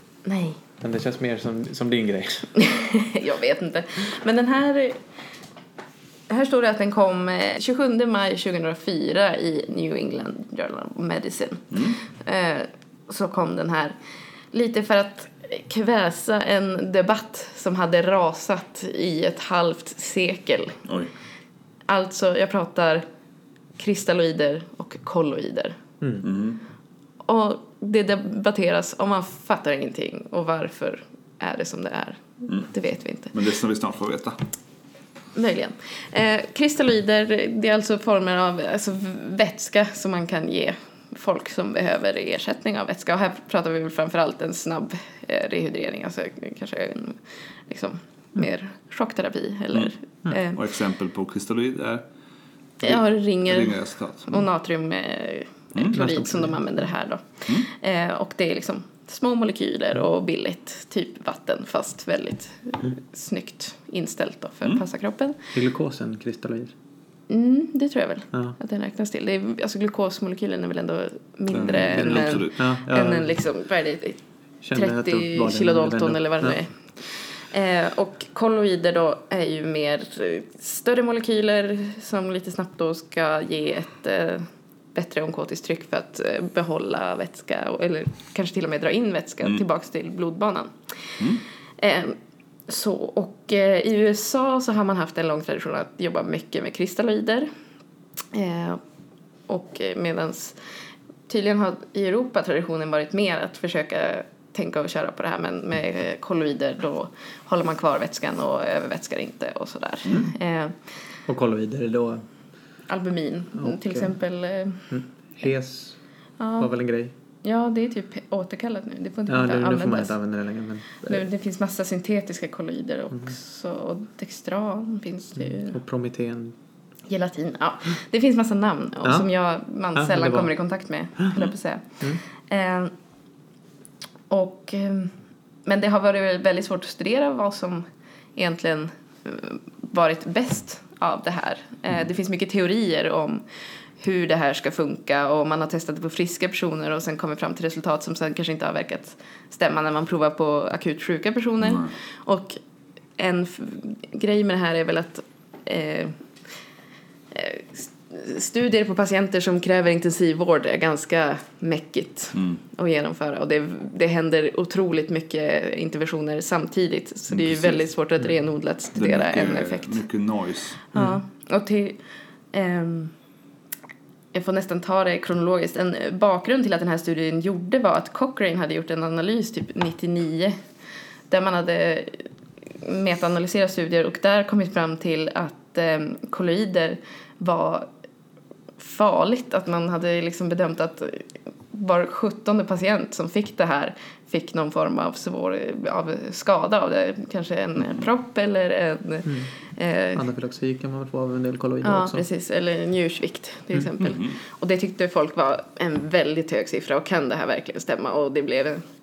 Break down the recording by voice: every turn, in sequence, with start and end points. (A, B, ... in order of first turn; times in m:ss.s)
0:00.2-0:00.6 A
0:00.8-0:02.5 B
0:02.6-0:05.0 A
0:06.3-0:14.0 A
0:11.7-0:12.0 C
0:14.5-0:20.8 A
0:21.9-0:23.0 A
0:23.8-0:25.8 A
0:26.2-0:26.6 C
0:27.2-0:33.3 A
0:33.3-0:34.4 C
0:35.3-0:50.6 A
0:50.5-0:52.0 C
0:52.8-0:54.4 C
0:52.8-1:05.4 A
0:55.9-0:56.6 B
1:05.5-1:06.7 B
1:07.3-1:14.2 A
1:11.5-1:12.6 C
1:12.5-1:13.3 B
1:14.6-1:16.6 B
1:14.7-1:31.2 A
1:31.8-1:32.2 A
1:32.7-1:37.5 A
1:38.3-1:38.8 A
1:39.5-1:40.6 A
1:41.3-1:50.7 A
1:51.3-1:52.2 B
1:52.9-1:54.9 A
1:53.6-1:54.1 B
1:54.9-1:56.0 B
1:56.4-1:56.7 A
1:56.6-1:57.1 B
1:57.4-2:00.2 A
1:59.3-2:01.2 B
2:01.0-2:05.8 A
2:05.4-2:06.5 B
2:07.1-2:12.9 A
2:09.9-2:10.5 B
2:14.3-2:15.1 A
2:15.6-2:17.8 A
2:18.4-2:23.4 A
2:24.0-2:32.6 A
2:33.2-2:36.2 A
2:37.3-2:50.0 A
2:47.3-2:47.8 C
2:48.9-2:50.8 C
2:50.9-2:52.0 A
2:52.5-2:53.1 A
2:54.3-3:00.6 A
3:01.3-3:02.2 A
3:02.8-3:07.9 A
3:08.8-3:20.2 A
3:20.2-3:22.2 B
3:21.8-3:28.8 A
3:24.0-3:24.3 C